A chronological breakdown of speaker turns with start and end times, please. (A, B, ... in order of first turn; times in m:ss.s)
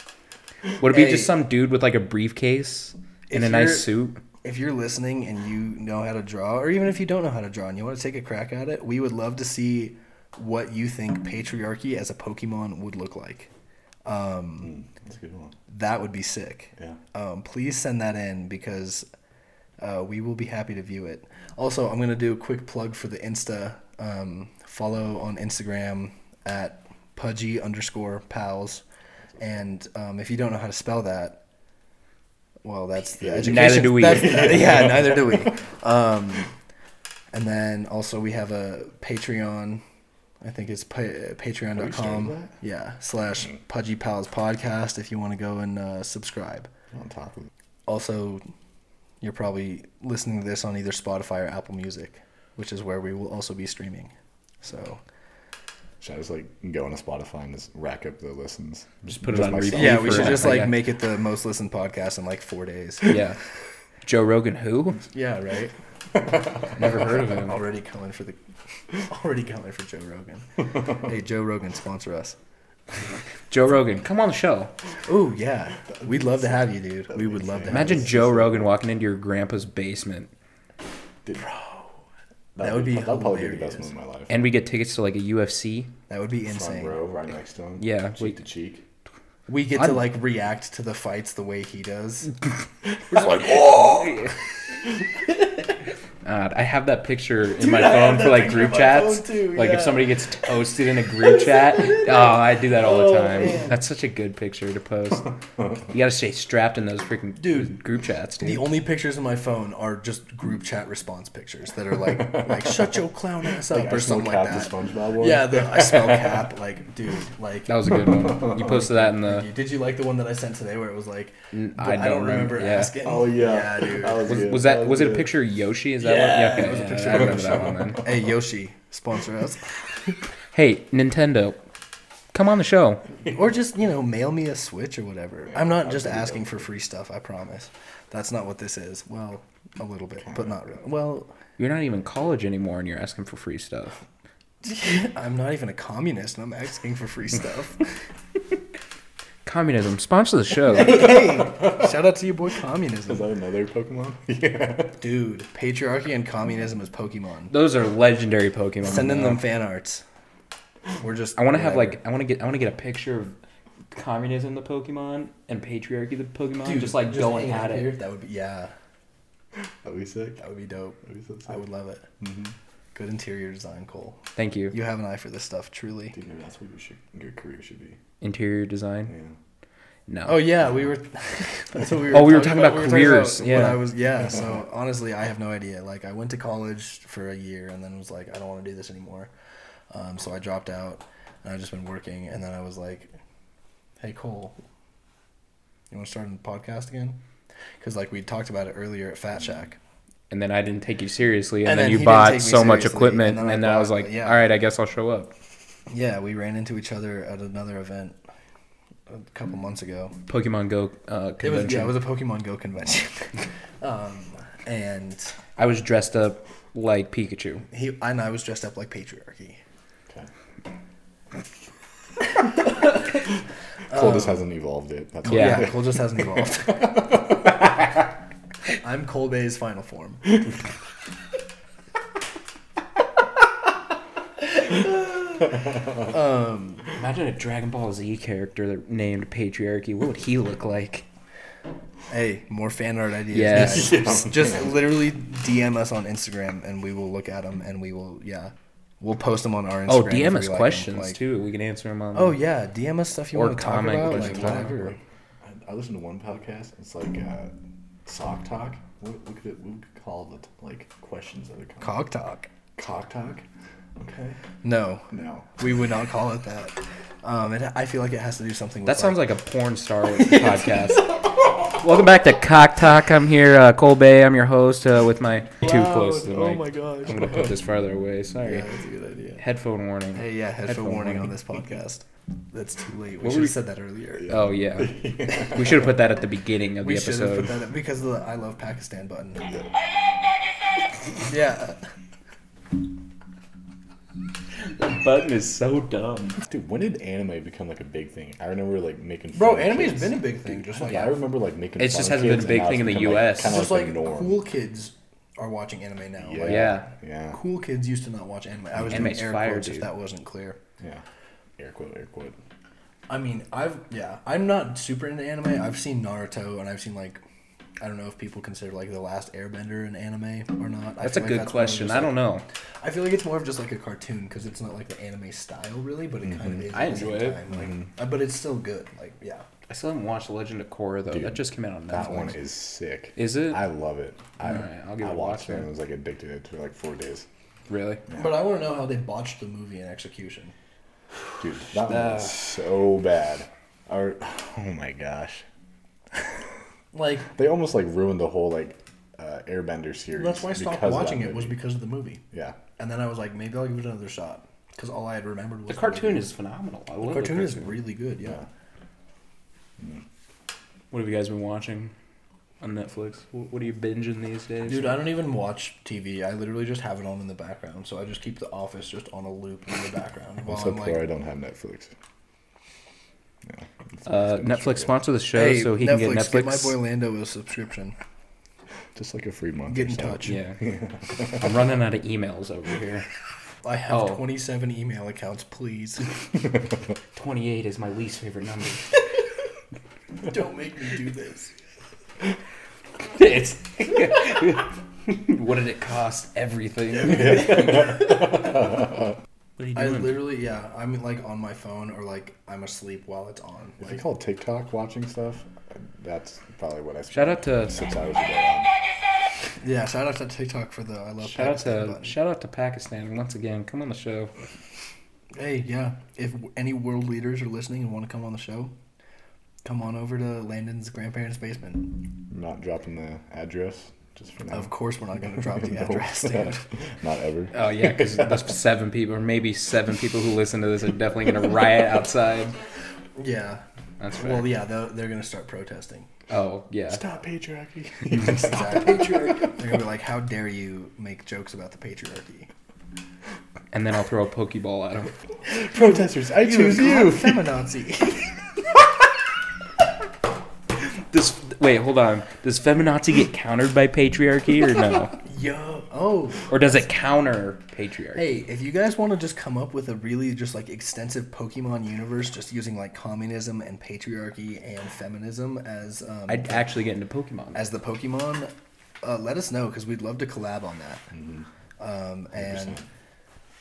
0:00.8-0:04.2 A
0:00.8-0:01.3 B
0:03.3-0:03.9 B
0:04.4-0:13.5 B
0:14.0-0:14.7 B
0:14.6-0:15.5 C
0:15.7-0:19.0 B
0:19.8-0:28.8 B
0:29.4-0:31.4 B
0:32.6-0:36.5 B
0:33.2-0:35.5 C
0:33.4-0:34.8 A
0:37.3-0:39.8 B
0:40.4-0:46.7 B
0:41.7-0:42.6 C
0:46.9-0:47.5 C
0:47.9-0:48.4 B
0:49.2-0:54.1 B
0:54.6-0:55.0 B
0:56.0-1:00.6 C
0:59.1-1:00.8 A
0:59.7-1:03.2 B
1:03.0-1:03.4 A
1:04.0-1:05.0 A
1:05.1-1:05.7 B
1:06.6-1:07.6 A
1:07.4-1:08.4 B
1:09.0-1:12.4 B
1:13.5-1:14.7 A
1:15.0-1:18.1 B
1:15.9-1:18.7 C
1:17.7-1:20.3 A
1:21.2-1:21.8 C
1:22.6-1:24.3 C
1:22.6-1:23.9 B
1:24.3-1:25.9 A
1:26.1-1:27.0 B
1:26.4-1:28.8 C
1:27.8-1:28.4 A
1:29.5-1:32.3 B
1:29.8-1:30.0 A
1:33.1-1:33.8 C
1:33.1-1:34.2 B
1:33.9-1:34.3 A
1:36.2-1:45.3 A
1:37.6-1:40.2 B
1:41.2-1:43.7 B
1:45.9-1:48.6 A
1:47.4-1:47.8 B
1:48.4-1:57.7 B
1:52.1-1:56.4 C
1:57.7-1:59.5 A
1:58.4-2:04.4 B
2:01.5-2:03.0 A
2:03.0-2:05.3 C
2:04.3-2:08.0 A
2:06.0-2:08.1 C
2:06.0-2:09.8 B
2:10.5-2:11.6 A
2:12.3-2:13.0 A
2:13.3-2:21.3 B
2:15.5-2:16.7 C
2:20.2-2:20.5 C
2:21.6-2:24.0 A
2:24.6-2:27.9 B
2:29.4-2:31.3 A
2:30.7-2:33.3 B
2:33.1-2:35.0 C
2:35.0-2:37.5 B
2:37.5-2:39.4 A
2:38.8-2:40.0 B
2:41.0-2:41.9 B
2:41.4-2:43.3 A
2:43.9-2:47.9 A
2:46.6-2:48.7 B
2:49.8-2:50.4 C
2:50.4-2:52.1 B
2:51.0-2:51.5 C
2:52.2-2:52.5 C
2:52.9-2:54.2 B
2:54.4-2:54.8 A
2:54.7-2:56.2 B
2:56.1-2:58.0 C
2:58.2-2:59.1 A
2:59.1-2:59.4 C
3:00.1-3:00.5 A
3:00.2-3:09.3 B
3:02.1-3:03.8 A
3:09.9-3:13.1 B
3:14.0-3:14.6 B
3:15.9-3:17.2 B
3:17.8-3:19.8 B
3:20.3-3:25.3 A
3:21.6-3:24.4 B
3:25.9-3:28.2 B
3:29.1-3:30.1 B
3:30.3-3:32.0 A
3:31.4-3:35.4 B
3:35.6-3:37.6 A
3:37.7-3:39.6 B
3:43.9-3:44.4 B
3:43.9-3:45.8 C
3:45.2-3:47.0 B
3:45.3-3:45.7 A
3:48.7-3:50.2 B
3:54.6-3:56.9 B
3:57.0-4:01.0 A
4:02.1-4:11.2 B
4:03.3-4:04.0 A
4:03.5-4:04.7 C
4:09.9-4:12.4 A
4:12.1-4:15.0 B
4:13.3-4:14.9 A
4:14.0-4:14.7 C
4:15.4-4:17.5 C
4:18.0-4:22.0 C
4:21.8-4:22.5 B
4:22.8-4:23.4 C
4:24.0-4:24.4 C
4:24.6-4:25.1 B
4:25.1-4:25.5 C
4:25.6-4:29.2 B
4:28.8-4:31.1 A
4:31.7-4:38.7 A
4:35.6-4:37.5 B
4:38.4-4:39.4 B
4:39.4-4:41.4 A
4:40.1-4:44.3 B
4:43.2-4:43.6 A
4:44.2-4:45.9 C
4:44.3-4:47.6 A
4:46.8-4:49.5 B
4:51.2-4:51.8 B
4:54.6-4:56.4 A
4:56.4-5:04.4 C
4:59.3-5:01.1 B
5:01.8-5:03.6 A
5:03.4-5:06.8 B
5:06.2-5:07.4 C
5:06.4-5:06.9 A
5:07.3-5:10.6 B
5:08.9-5:09.9 A
5:11.6-5:12.4 C
5:13.1-5:17.2 B
5:17.8-5:22.2 B
5:21.0-5:22.4 A
5:22.8-5:29.4 B
5:26.3-5:26.6 C
5:26.7-5:27.4 A
5:27.5-5:27.9 C
5:29.7-5:32.4 A
5:31.1-5:37.2 C
5:33.2-5:33.6 A
5:34.4-5:35.7 A
5:37.7-5:38.0 A
5:38.1-5:40.5 B
5:41.4-5:45.4 C
5:41.8-5:42.4 A
5:46.9-5:47.3 B
5:47.3-5:51.6 C
5:50.1-5:52.2 B
5:52.3-5:52.6 C
5:52.8-5:56.3 B
5:55.7-5:57.8 A
5:57.0-5:58.4 B
6:00.9-6:01.9 A
6:02.6-6:05.0 A
6:04.6-6:11.0 B
6:10.4-6:11.9 C
6:13.4-6:15.0 C
6:14.0-6:16.8 A
6:15.3-6:18.0 B
6:18.9-6:21.5 C
6:19.7-6:20.4 B
6:20.2-6:20.6 A
6:21.2-6:23.1 A
6:23.6-6:26.0 B
6:23.9-6:24.2 A
6:27.1-6:28.9 A
6:30.2-6:31.5 B
6:33.1-6:38.5 A
6:37.3-6:38.1 C
6:39.6-6:40.2 A
6:39.7-6:44.0 B
6:43.8-6:48.7 C
6:47.1-6:47.8 A
6:49.6-6:52.1 B
6:51.2-6:54.3 A
6:55.3-6:58.7 B
6:59.6-7:01.9 B
7:02.3-7:04.7 C
7:04.5-7:06.6 B
7:05.3-7:08.4 C
7:07.5-7:12.5 A
7:13.2-7:16.1 B
7:14.0-7:14.5 A
7:16.3-7:17.0 A
7:16.9-7:19.5 C
7:18.3-7:22.5 B
7:23.7-7:25.1 A
7:25.5-7:27.5 C
7:25.6-7:28.3 B
7:31.1-7:35.2 A
7:35.2-7:36.8 B
7:36.5-7:38.2 A
7:38.1-7:46.6 B
7:46.3-7:47.6 A
7:47.5-7:51.0 B
7:51.1-7:51.4 C
7:51.8-7:52.8 B
7:52.3-7:52.8 C